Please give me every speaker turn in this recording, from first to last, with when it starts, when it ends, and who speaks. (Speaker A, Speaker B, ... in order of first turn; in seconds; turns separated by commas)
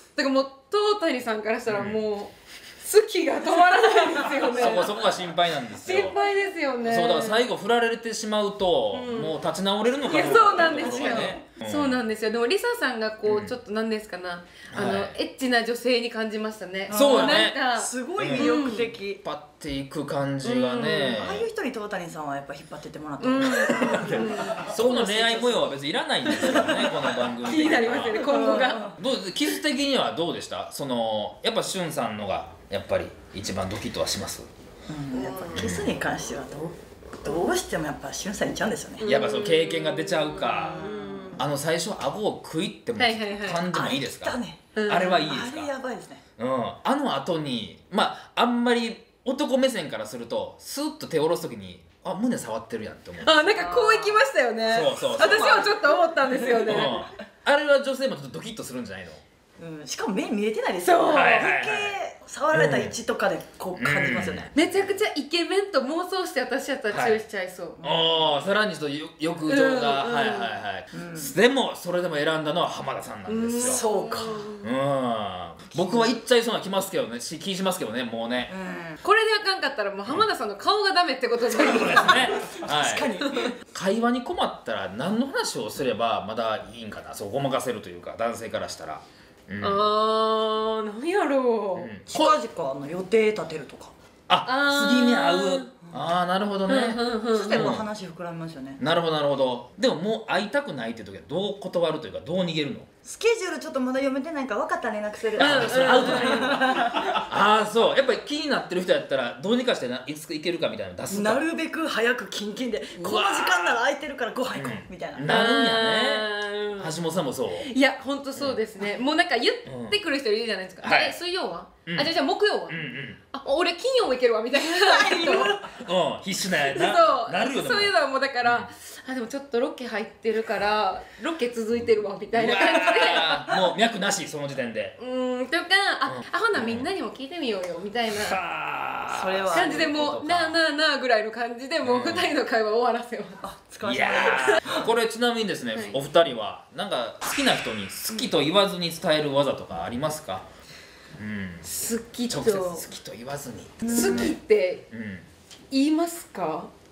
Speaker A: 0.2-5.0, Speaker B: 1.7-2.0, Speaker B: 4.5-6.2, Speaker A: 5.8-7.4, Speaker B: 6.8-12.0, Speaker A: 8.9-9.3, Speaker A: 10.0-18.9, Speaker C: 10.4-11.4, Speaker B: 13.2-13.5, Speaker B: 14.7-15.2, Speaker C: 16.9-19.2, Speaker B: 16.9-21.5, Speaker A: 20.4-21.2, Speaker C: 21.2-24.2, Speaker A: 23.2-25.6, Speaker B: 23.8-28.4, Speaker A: 26.2-26.6, Speaker C: 26.4-26.9, Speaker A: 27.4-28.9, Speaker C: 27.9-29.0, Speaker B: 28.9-34.5, Speaker C: 34.9-39.1, Speaker A: 35.1-35.7, Speaker B: 35.5-35.9, Speaker B: 39.0-40.8, Speaker A: 39.0-41.4, Speaker C: 40.6-41.3, Speaker B: 41.4-45.7, Speaker A: 43.0-43.6, Speaker C: 43.6-46.2, Speaker A: 44.8-45.2, Speaker B: 46.4-53.5, Speaker A: 53.2-57.0, Speaker C: 53.5-54.2, Speaker B: 54.7-55.7, Speaker C: 55.0-56.9, Speaker B: 56.6-59.2, Speaker C: 59.6-64.5, Speaker A: 60.8-61.5, Speaker B: 61.1-62.0, Speaker B: 62.5-63.0, Speaker B: 63.8-65.0, Speaker A: 64.5-67.8, Speaker B: 66.9-67.2, Speaker C: 67.8-68.5, Speaker B: 67.8-73.8, Speaker A: 69.5-70.5, Speaker C: 70.9-71.3, Speaker A: 73.3-74.6, Speaker C: 73.6-74.5, Speaker B: 74.6-78.5, Speaker C: 75.8-76.2, Speaker C: 78.5-79.0, Speaker A: 79.0-82.4, Speaker B: 81.5-83.1, Speaker C: 81.6-83.5, Speaker A: 83.2-83.5, Speaker B: 83.7-89.9, Speaker A: 89.6-91.9, Speaker B: 91.8-92.3, Speaker C: 92.1-93.9, Speaker B: 94.3-97.8, Speaker A: 94.4-95.7, Speaker A: 96.7-97.7, Speaker C: 97.3-98.8, Speaker B: 98.8-102.9, Speaker C: 103.0-107.2, Speaker B: 105.4-111.4, Speaker A: 105.4-106.5, Speaker C: 111.1-115.3, Speaker B: 113.1-113.8, Speaker B: 114.5-116.3, Speaker A: 115.2-116.9, Speaker B: 116.8-117.7, Speaker A: 117.6-125.6, Speaker B: 119.7-120.0, Speaker B: 120.8-121.2, Speaker B: 121.8-122.1, Speaker B: 122.7-123.2, Speaker C: 124.5-125.8, Speaker B: 125.7-128.7, Speaker A: 126.6-133.5, Speaker B: 131.8-134.9, Speaker A: 135.0-138.4, Speaker B: 136.1-136.9, Speaker B: 138.1-140.6, Speaker C: 139.1-139.9, Speaker A: 139.5-143.4, Speaker B: 141.8-142.3, Speaker C: 143.4-144.9, Speaker B: 143.8-150.5, Speaker A: 145.7-146.0, Speaker B: 151.2-151.7, Speaker A: 151.6-152.8, Speaker B: 152.3-154.4, Speaker C: 153.9-154.3, Speaker A: 153.9-154.8, Speaker B: 154.9-155.2, Speaker A: 155.7-156.7